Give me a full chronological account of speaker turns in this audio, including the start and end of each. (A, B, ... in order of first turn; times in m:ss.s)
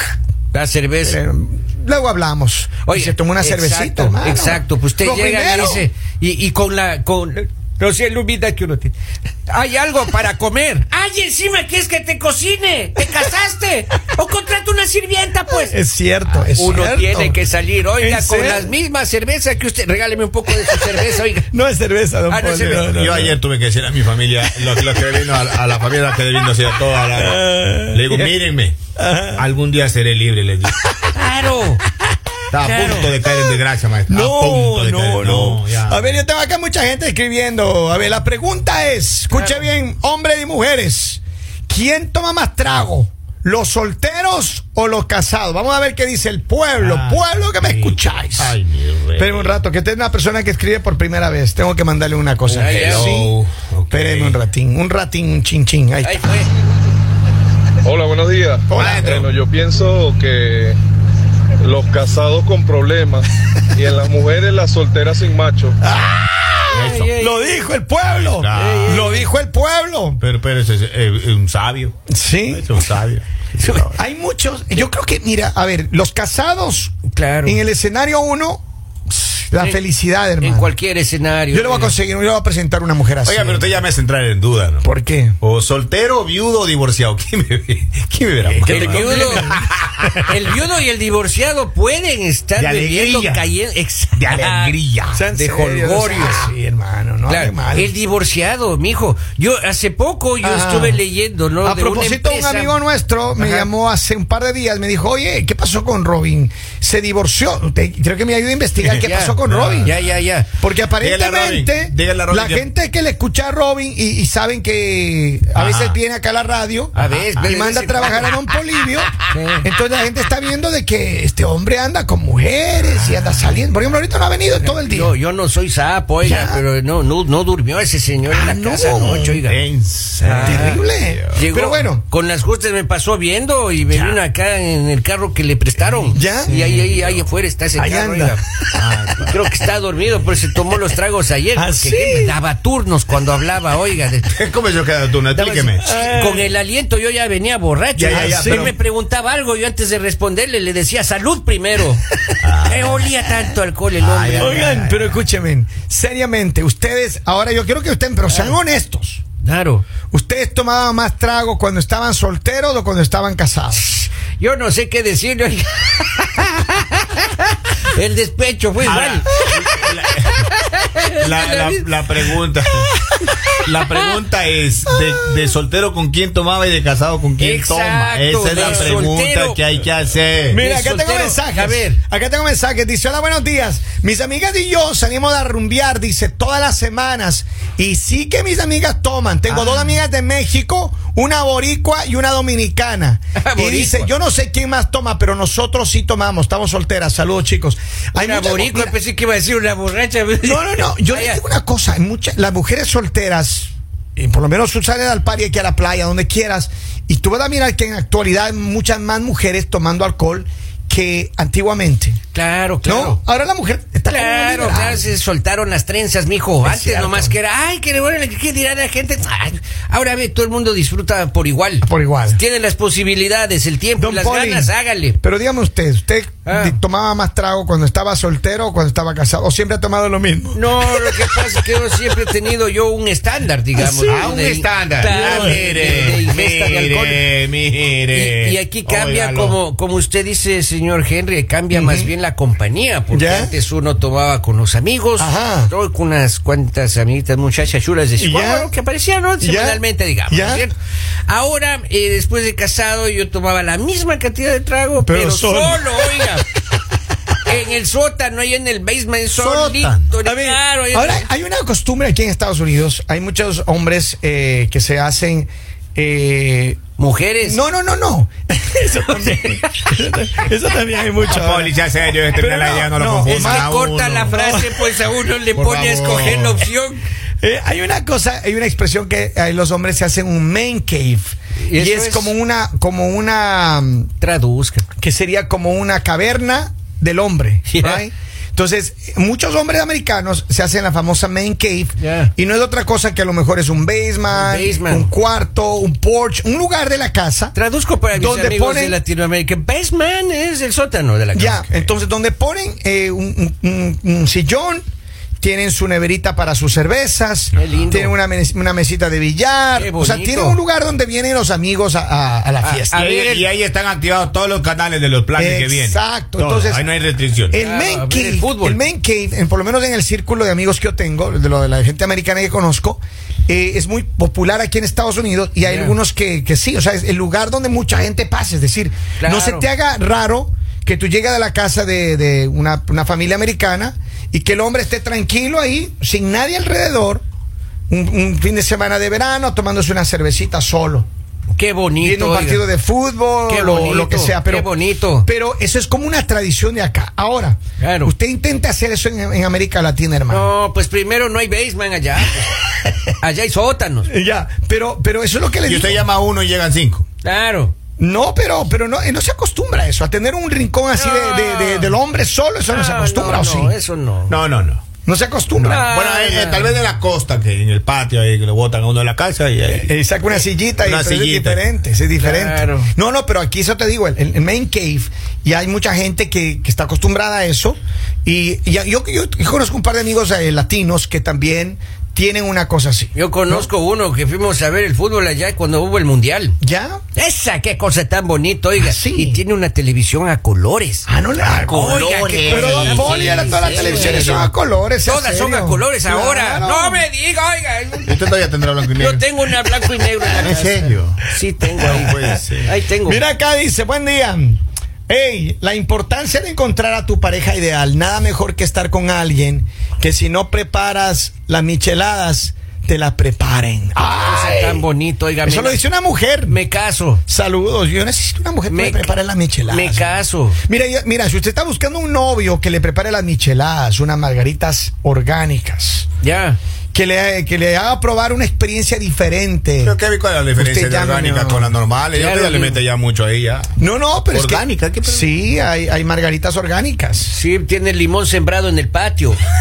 0:00.5-0:01.2 A
0:01.0-0:05.8 B
0:02.8-0:08.9 A
0:09.5-0:15.7 A
0:15.6-0:17.4 B
0:16.4-0:21.5 A
0:18.0-0:18.7 B
0:21.5-0:23.4 B
0:22.3-0:23.0 A
0:22.7-0:28.8 C
0:27.1-0:28.4 B
0:29.0-0:29.4 B
0:29.4-0:30.9 C
0:31.1-0:31.8 A
0:32.5-0:36.1 C
0:32.6-0:33.1 A
0:33.2-0:33.5 B
0:34.1-0:48.6 B
0:46.8-0:49.6 C
0:49.2-0:53.4 B
0:52.5-0:53.1 A
0:52.5-0:54.4 C
0:53.9-0:56.2 B
0:56.0-0:56.5 A
0:57.8-1:00.8 D
0:58.7-0:59.0 B
0:58.7-0:59.3 C
1:01.6-1:05.8 D
1:05.8-1:10.2 B
1:06.7-1:07.1 C
1:06.7-1:07.7 A
1:08.0-1:09.0 C
1:08.5-1:09.3 A
1:10.2-1:11.9 C
1:12.1-1:12.8 B
1:12.5-1:13.8 C
1:13.6-1:14.0 A
1:13.9-1:18.6 B
1:17.1-1:17.6 A
1:19.5-1:20.7 B
1:20.4-1:22.0 A
1:21.5-1:23.7 B
1:23.2-1:24.8 C
1:24.8-1:25.4 B
1:25.4-1:30.2 C
1:28.4-1:29.6 B
1:28.7-1:29.5 A
1:30.3-1:34.8 A
1:32.6-1:33.4 C
1:34.2-1:35.2 C
1:35.1-1:37.9 B
1:35.3-1:36.5 A
1:37.3-1:42.8 A
1:40.4-1:41.0 B
1:41.6-1:50.0 B
1:43.3-1:43.7 A
1:48.9-1:50.5 A
1:49.4-1:49.9 C
1:50.6-2:05.1 B
1:51.0-1:52.6 C
1:55.5-1:56.0 C
1:56.9-1:57.6 C
1:57.0-1:58.4 A
1:59.3-1:59.6 A
2:04.6-2:09.6 A
2:06.2-2:06.6 B
2:08.3-2:09.4 B
2:09.4-2:11.4 C
2:10.2-2:18.4 A
2:10.4-2:12.0 B
2:16.0-2:16.9 B
2:17.8-2:18.8 B
2:18.8-2:19.4 C
2:19.2-2:24.3 A
2:21.5-2:22.3 B
2:24.3-2:25.9 C
2:25.3-2:32.0 A
2:25.8-2:26.5 B
2:28.0-2:28.8 B
2:28.0-2:28.8 C
2:32.4-2:33.1 C
2:32.6-2:34.8 A
2:34.0-2:35.2 C
2:34.4-2:39.2 B
2:39.4-2:39.8 A
2:40.1-2:43.8 B
2:43.9-2:52.3 A
2:48.8-2:50.4 C
2:51.2-2:52.9 C
2:52.9-2:54.1 A
2:53.5-3:00.6 C
2:57.4-2:59.6 A
2:58.6-2:59.1 B
3:00.5-3:18.9 B
3:00.6-3:02.0 A
3:09.5-3:09.9 A
3:13.4-3:14.1 A
3:18.2-3:21.4 A
3:20.4-3:32.2 B
3:32.3-3:33.2 A
3:32.8-3:35.0 B
3:34.1-3:45.2 A
3:36.6-3:37.3 B
3:41.8-3:42.4 B
3:44.0-3:51.2 B
3:46.4-3:46.8 A
3:50.5-3:57.2 A
3:53.8-3:54.3 B
3:54.1-3:59.6 C
3:55.1-3:55.7 B
3:58.1-4:10.7 A
4:01.7-4:02.1 B
4:03.1-4:03.5 B
4:05.2-4:05.7 B
4:08.2-4:08.7 B
4:09.4-4:10.6 B
4:11.3-4:16.4 A
4:15.0-4:16.3 B
4:17.4-4:21.2 A
4:19.3-4:20.1 C
4:20.2-4:26.8 B
4:27.0-4:27.6 A
4:27.4-4:31.7 B
4:31.2-4:34.4 C
4:32.3-4:33.7 B
4:33.3-4:37.0 A
4:34.3-4:34.7 B
4:35.5-4:36.6 C
4:37.4-4:44.1 B
4:41.6-4:42.3 A
4:44.2-4:44.8 A
4:45.0-4:57.5 B
4:47.7-4:48.0 A
4:52.0-4:52.3 A
4:54.3-4:55.1 A
4:57.5-5:01.6 A
4:58.1-4:59.0 B
5:01.3-5:04.8 B
5:05.4-5:13.0 B
5:07.6-5:08.1 A
5:09.8-5:10.6 A
5:12.6-5:13.5 A
5:12.9-5:17.6 C
5:15.3-5:16.8 B
5:17.5-5:37.2 B
5:17.5-5:18.8 A
5:25.6-5:25.9 A
5:29.2-5:29.6 A
5:37.9-5:41.1 B
5:41.6-5:42.6 A
5:42.0-5:44.7 B
5:43.5-5:45.3 A
5:45.2-5:50.5 B
5:47.8-5:48.1 A
5:50.3-5:52.6 A
5:53.2-5:54.1 A
5:54.1-5:56.1 B
5:55.6-5:57.0 C
5:57.2-5:57.7 A
5:58.0-6:03.7 B
6:00.9-6:02.0 A
6:02.7-6:04.4 A
6:04.3-6:04.8 C
6:05.0-6:05.9 B
6:05.6-6:09.9 C
6:05.6-6:06.7 A
6:09.7-6:23.7 B
6:10.8-6:11.6 C
6:12.2-6:12.9 A
6:23.1-6:26.6 A
6:26.6-6:27.0 B
6:27.1-6:31.1 A
6:28.8-6:29.4 B
6:31.1-6:37.0 B
6:31.4-6:34.5 C
6:31.7-6:34.4 A
6:35.0-6:38.2 A
6:38.0-6:39.2 C
6:38.9-6:43.2 A
6:39.6-6:40.6 B
6:40.3-6:41.2 C
6:41.8-6:42.7 C
6:41.8-6:42.4 B
6:43.0-6:54.8 B
6:54.2-6:55.8 A
6:55.4-6:56.6 B
6:56.5-6:57.2 A
6:57.3-7:00.1 B
6:58.7-6:59.1 A
6:59.7-7:00.6 A
7:00.6-7:06.1 B
7:06.2-7:06.6 A
7:06.9-7:09.9 B
7:09.8-7:13.7 C
7:10.6-7:11.7 B
7:12.1-7:12.8 A
7:13.8-7:17.3 B
7:14.3-7:15.3 C
7:17.3-7:19.4 A